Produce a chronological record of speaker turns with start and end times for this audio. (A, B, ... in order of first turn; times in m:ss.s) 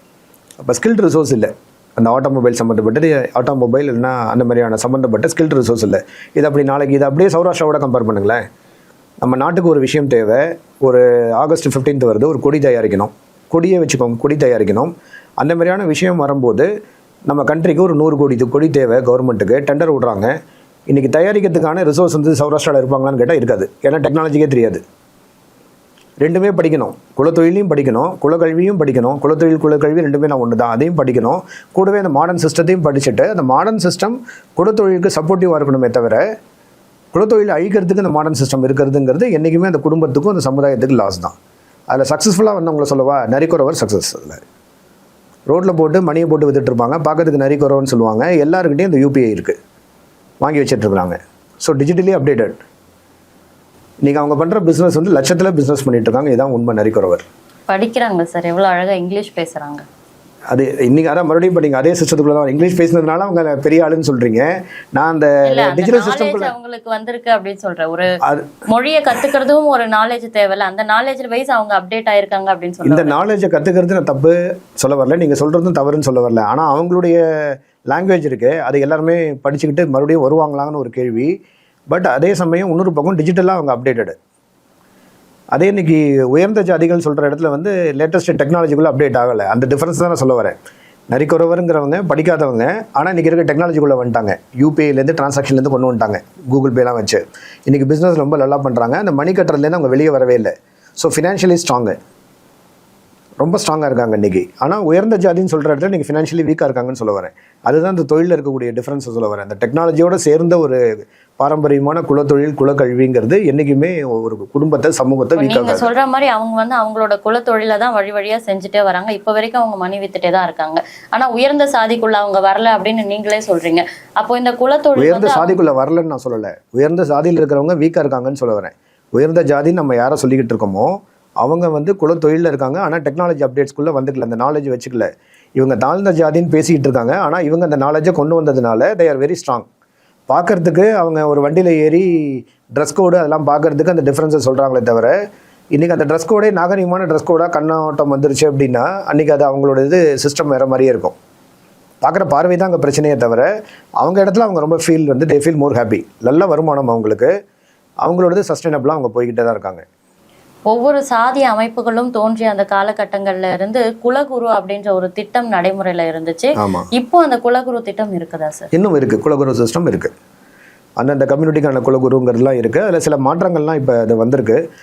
0:00.6-0:08.4 A
0:09.2-0:16.7 A
0:17.3-0:20.3 A
0:20.9-0:24.8 A
0:26.2-0:36.2 A
0:37.1-0:41.3 A
0:41.9-0:44.4 A
0:45.5-0:49.5 A
0:50.4-0:52.6 A
0:54.0-0:57.2 A
0:57.7-0:59.8 B
1:00.5-1:06.5 A
1:05.4-1:08.2 B
1:08.2-1:08.5 A
1:08.7-1:13.2 B
1:12.8-1:17.2 A
1:17.9-1:21.3 A
1:21.9-1:24.2 A
1:25.5-1:30.6 A
1:31.1-1:42.0 A
1:43.4-1:50.8 A
1:51.4-1:55.9 A
1:55.4-2:05.6 B
2:05.0-2:19.6 A
2:20.3-2:25.2 A
2:25.7-2:31.2 A
2:32.0-2:33.5 A
2:34.0-2:37.3 A
2:38.0-2:39.8 A
2:40.7-2:48.7 B
2:46.6-2:46.9 A
2:48.7-2:50.1 A
2:51.0-2:54.6 A